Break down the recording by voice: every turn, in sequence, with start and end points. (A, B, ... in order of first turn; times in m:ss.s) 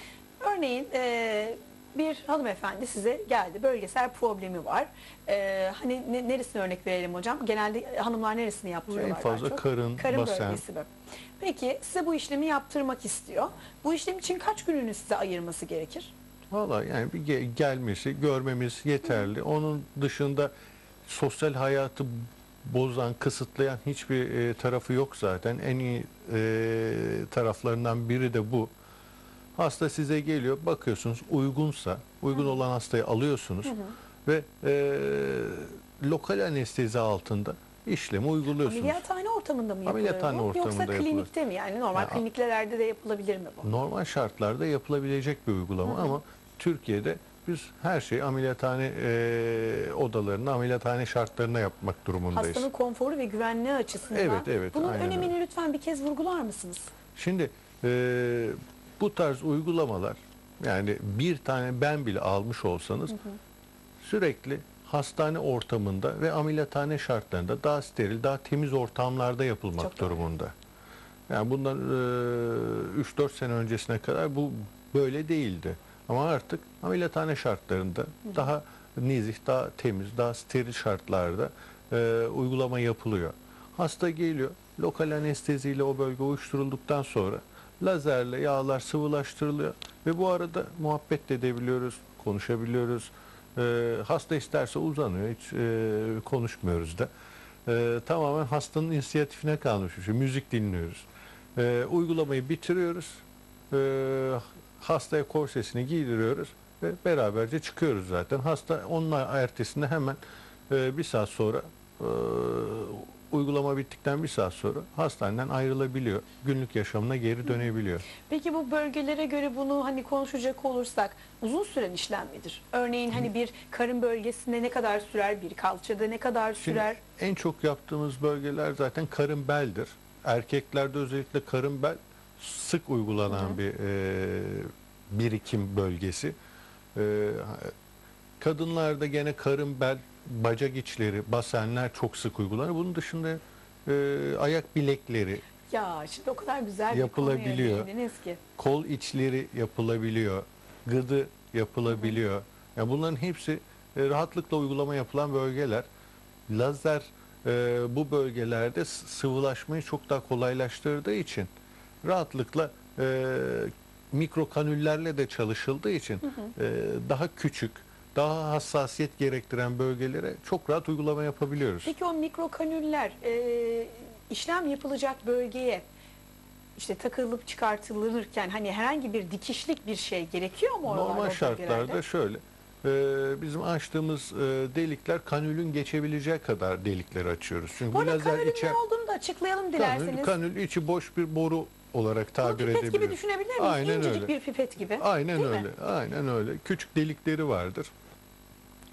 0:00.4-0:16.1 A
0:08.9-0:10.6 B
0:16.5-0:20.5 B
0:21.0-0:28.7 B
0:29.6-0:39.0 B
0:33.6-0:33.9 A
0:38.6-0:43.7 A
0:39.8-0:41.3 B
0:41.9-0:42.2 B
0:43.6-0:52.7 B
0:45.8-0:46.2 A
0:52.3-0:56.9 A
0:54.1-0:55.3 B
0:57.2-1:03.1 B
1:03.1-1:03.4 A
1:04.0-1:10.5 B
1:09.8-1:10.2 A
1:11.3-1:37.1 B
1:37.6-1:58.1 B
1:58.2-2:07.0 A
2:06.6-2:16.3 B
2:13.3-2:13.6 A
2:16.9-2:17.7 B
2:18.4-2:25.4 B
2:25.7-2:28.4 A
2:26.9-2:27.9 B
2:28.6-2:35.8 B
2:31.9-2:32.2 A
2:36.5-2:41.5 B
2:42.0-2:51.9 B
2:51.8-2:55.8 A
2:56.8-3:02.0 A
3:00.8-3:08.8 B
3:07.9-3:10.3 A
3:09.8-3:14.3 B
3:12.4-3:15.6 A
3:15.0-3:17.9 B